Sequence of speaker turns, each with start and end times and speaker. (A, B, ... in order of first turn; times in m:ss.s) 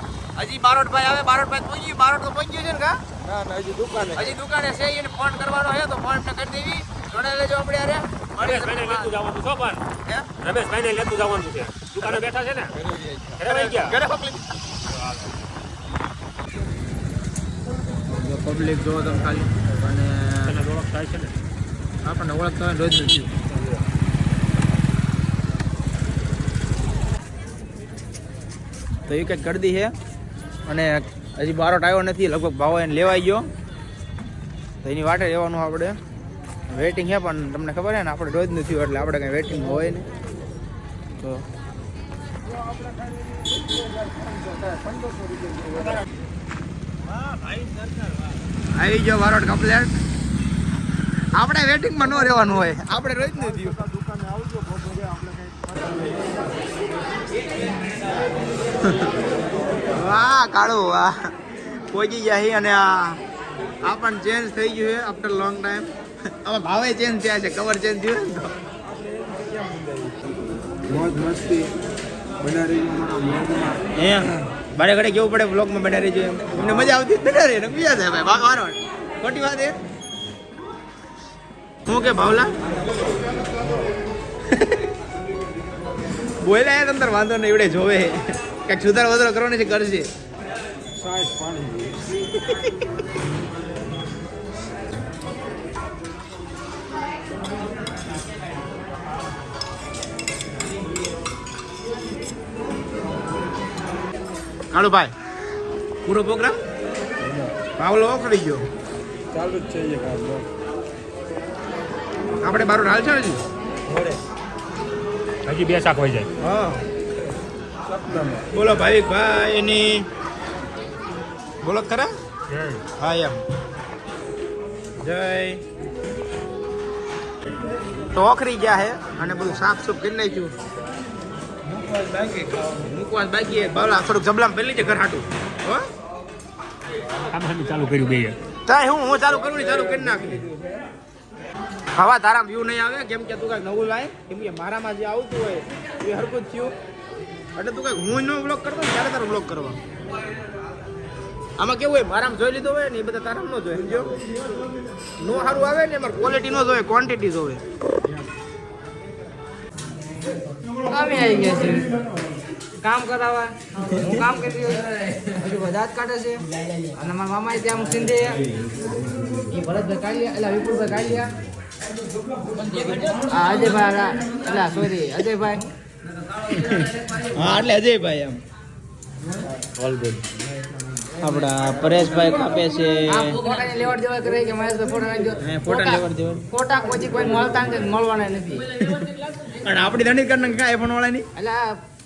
0:00.4-0:03.0 A
0:03.2-0:04.4 B
0:04.2-0:09.2 A
0:08.4-0:09.8 C
0:10.4-0:12.7 C
0:12.7-0:13.5 B
0:13.4-0:14.0 C
0:13.5-0:14.4 A
0:18.1-0:20.6 A
0:20.5-0:21.4 C
0:22.0-0:23.3 A
0:29.1-0:29.9 A
0:30.7-0:33.5 A
0:34.8-0:36.0 A
0:36.7-0:40.1 A
0:41.2-0:41.4 A
0:42.4-0:46.0 B
0:48.8-0:49.9 A
0:51.4-0:53.8 A
0:52.7-0:56.3 B
0:59.9-1:01.1 A
1:01.9-1:03.2 A
1:03.8-1:05.9 A
1:06.4-1:08.5 A
1:08.8-1:10.2 B
1:10.9-1:11.7 B
1:12.4-1:13.8 B
1:14.0-1:19.8 A
1:16.6-1:16.9 B
1:21.9-1:22.6 A
1:26.4-1:30.1 A
1:31.0-1:32.0 B
1:44.7-1:45.1 A
1:46.0-1:46.6 A
1:47.2-1:47.6 B
1:47.8-1:48.6 A
1:49.3-1:50.5 B
1:52.4-1:53.4 A
1:55.4-1:56.3 C
1:56.4-1:56.8 A
1:57.9-1:58.5 B
1:58.5-2:00.1 A
2:01.6-2:02.1 A
2:02.5-2:02.8 C
2:03.0-2:03.4 A
2:05.0-2:05.6 A
2:08.1-2:10.6 A
2:11.7-2:15.8 A
2:17.3-2:18.4 C
2:18.7-2:20.4 A
2:22.0-2:26.7 A
2:27.6-2:29.8 A
2:31.6-2:34.2 A
2:35.2-2:37.6 A
2:40.9-2:41.9 D
2:42.8-2:46.4 D
2:47.0-2:48.4 D
2:49.5-2:51.3 D
2:52.8-2:53.9 A
2:53.3-2:55.7 D
2:56.5-2:58.4 A
3:01.2-3:03.4 A
3:03.1-3:08.7 D
3:05.4-3:06.4 A
3:08.8-3:11.3 A
3:11.4-3:11.6 D